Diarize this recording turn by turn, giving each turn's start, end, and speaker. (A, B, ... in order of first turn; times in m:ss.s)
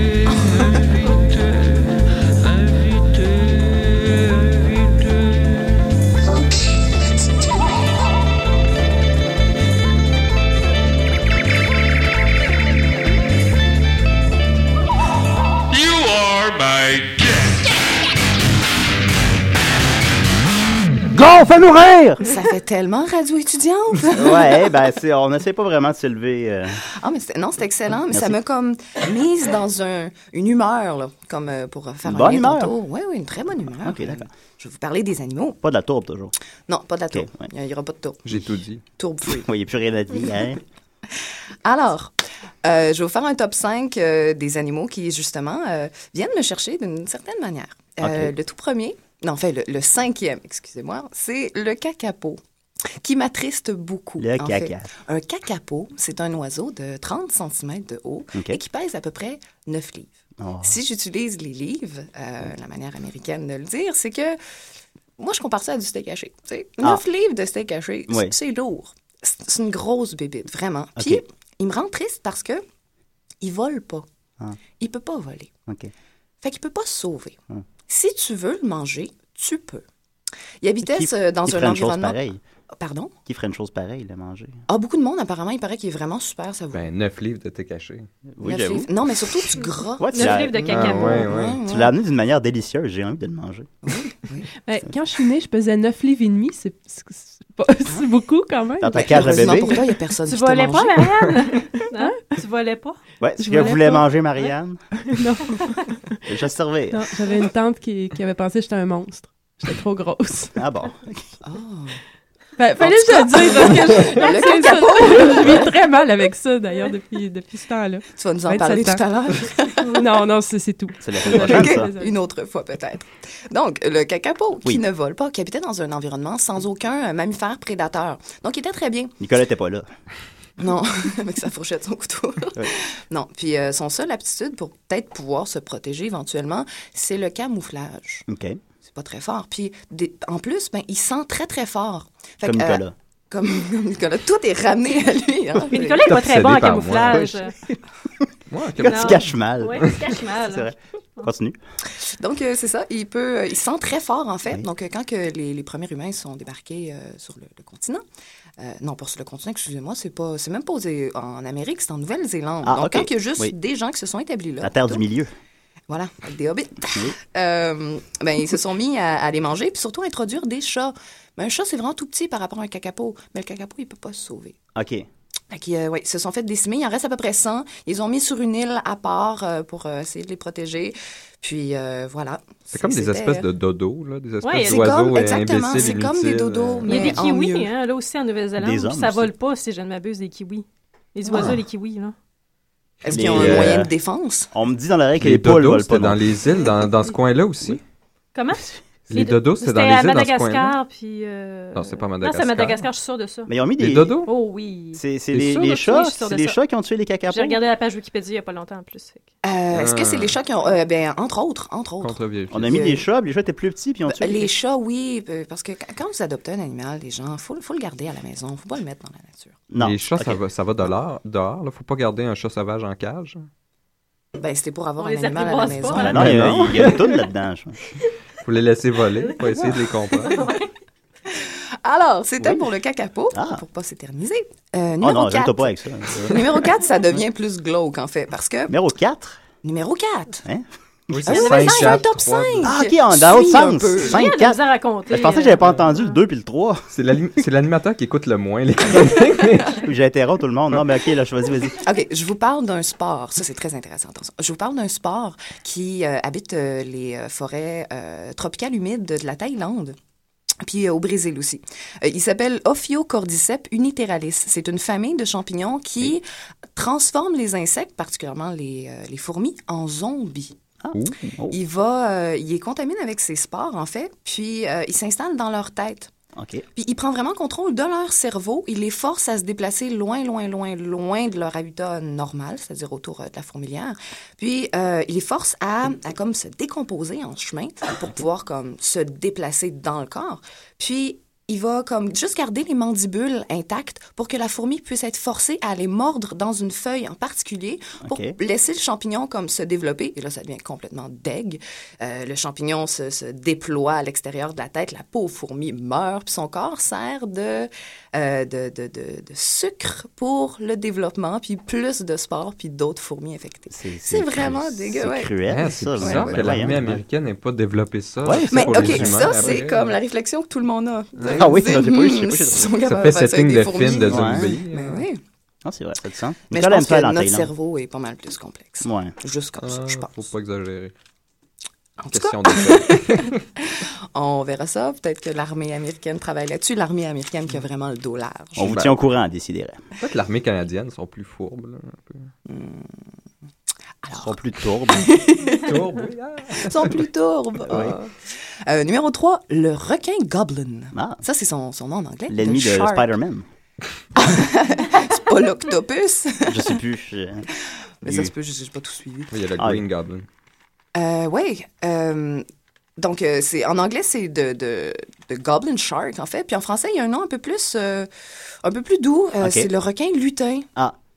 0:15.7-0:17.7 A
0:21.1-0:22.2 B
0:22.2-0:24.6 C
0:24.1-0:26.8 B
0:26.8-0:35.6 C
0:32.0-0:32.7 B
0:33.8-0:34.3 B
0:35.6-0:36.3 B
0:36.7-0:38.3 C
0:37.1-0:37.5 B
0:38.2-0:38.8 D
0:39.0-0:39.5 C
0:39.3-0:40.6 B
0:41.6-0:42.1 C
0:42.6-0:52.4 C
0:48.0-0:48.3 B
0:53.0-1:04.4 C
0:54.2-0:54.9 B
1:00.4-1:00.7 B
1:05.2-1:12.6 C
1:13.4-1:14.0 C
1:14.8-1:15.5 C
1:16.4-1:19.8 C
1:20.6-1:22.2 C
1:20.8-1:22.4 B
1:22.8-1:23.1 C
1:23.3-1:24.6 B
1:24.7-1:26.8 C
1:26.7-1:28.1 D
1:28.4-1:28.9 B
1:28.4-1:31.9 C
1:30.0-1:33.7 B
1:30.1-1:31.3 E
1:30.7-1:31.6 D
1:33.8-1:34.5 C
1:34.6-1:39.9 F
1:38.8-1:39.8 B
1:38.9-1:41.0 C
1:40.2-1:43.0 E
1:41.8-1:42.2 F
1:43.2-1:44.8 B
1:43.4-1:44.1 F
1:45.0-1:46.2 F
1:46.3-1:47.2 B
1:46.9-1:50.6 F
1:50.6-1:51.3 B
1:51.4-1:52.0 C
1:52.6-1:59.0 F
1:52.8-1:55.7 C
1:58.2-2:00.0 C
1:59.8-2:02.1 F
2:01.0-2:01.9 B
2:01.2-2:09.2 C
2:09.2-2:09.9 B
2:10.6-2:18.2 C
2:18.3-2:18.6 B
2:18.8-2:26.1 C
2:22.4-2:22.9 B
2:25.7-2:27.5 E
2:26.0-2:27.4 D
2:27.1-2:27.7 B
2:28.5-2:30.0 D
2:28.8-2:31.6 B
2:28.8-2:31.3 E
2:31.9-2:38.0 C
2:38.6-2:45.0 C
2:42.6-2:43.5 B
2:44.6-2:45.3 B
2:45.9-2:54.6 C
2:54.8-2:55.1 B
2:55.5-3:03.5 C
3:02.7-3:07.2 D
3:04.4-3:04.8 E
3:04.6-3:07.7 C
3:06.9-3:12.1 E
3:08.6-3:09.3 B
3:13.0-3:14.5 C
3:13.1-3:13.9 B
3:13.1-3:13.8 D
3:14.5-3:16.2 B
3:15.2-3:17.8 D
3:18.3-3:23.5 E
3:19.1-3:20.8 D
3:21.7-3:22.8 D
3:23.5-3:24.2 B
3:23.8-3:24.3 D
3:24.2-3:26.6 E
3:24.9-3:27.6 B
3:25.3-3:25.8 D
3:27.3-3:29.3 E
3:29.4-3:33.0 C
3:29.7-3:30.4 D
3:32.0-3:32.8 D
3:32.5-3:34.5 B
3:34.1-3:39.6 C
3:39.7-3:40.4 B
3:39.8-3:43.5 D
3:44.4-3:46.7 C
3:45.0-3:46.2 E
3:45.9-3:47.8 B
3:46.1-3:47.0 D
3:48.4-3:50.4 D
3:50.2-3:50.6 E
3:51.3-3:58.7 C
3:53.3-3:53.6 B
3:55.0-3:56.6 B
3:58.7-3:59.4 B
3:59.6-4:00.4 C
4:00.5-4:01.9 B
4:01.1-4:02.8 D
4:01.3-4:04.2 C
4:02.6-4:06.9 B
4:04.1-4:06.2 E
4:06.9-4:09.8 D
4:09.7-4:11.8 B
4:11.8-4:20.0 C
4:20.6-4:26.2 C
4:26.7-4:30.6 C
4:30.8-4:31.6 B
4:30.9-4:31.3 D
4:31.5-4:36.1 C
4:36.4-4:36.6 B
4:36.7-5:15.4 C
4:58.0-4:58.3 B
5:13.7-5:17.0 B
5:15.5-5:19.9 D
5:16.0-5:16.7 C
5:18.2-5:19.6 B
5:18.5-5:25.2 C
5:21.2-5:21.5 D
5:21.2-5:22.7 B
5:22.8-5:25.0 D
5:24.1-5:24.5 B
5:25.6-5:27.5 B
5:26.5-5:30.2 C
5:28.8-5:29.1 B
5:29.6-5:30.9 D
5:32.0-5:38.7 C
5:32.1-5:33.4 D
5:38.6-5:39.8 B
5:38.6-5:39.0 D
5:40.0-5:42.3 D
5:42.4-5:43.0 C
5:44.0-5:44.4 C
5:44.1-5:45.2 B
5:44.9-5:45.8 C
5:45.4-5:47.0 D
5:46.5-5:48.0 C
5:47.7-5:47.9 B
5:48.6-5:53.1 C
5:50.9-5:51.2 B
5:52.3-5:53.4 B
5:54.1-5:56.8 C
5:56.5-5:57.4 B
5:58.0-5:58.3 B
5:58.0-5:59.3 C
5:59.3-6:00.3 D
6:00.9-6:02.4 C
6:03.0-6:08.1 C
6:08.6-6:10.7 C
6:09.4-6:09.7 B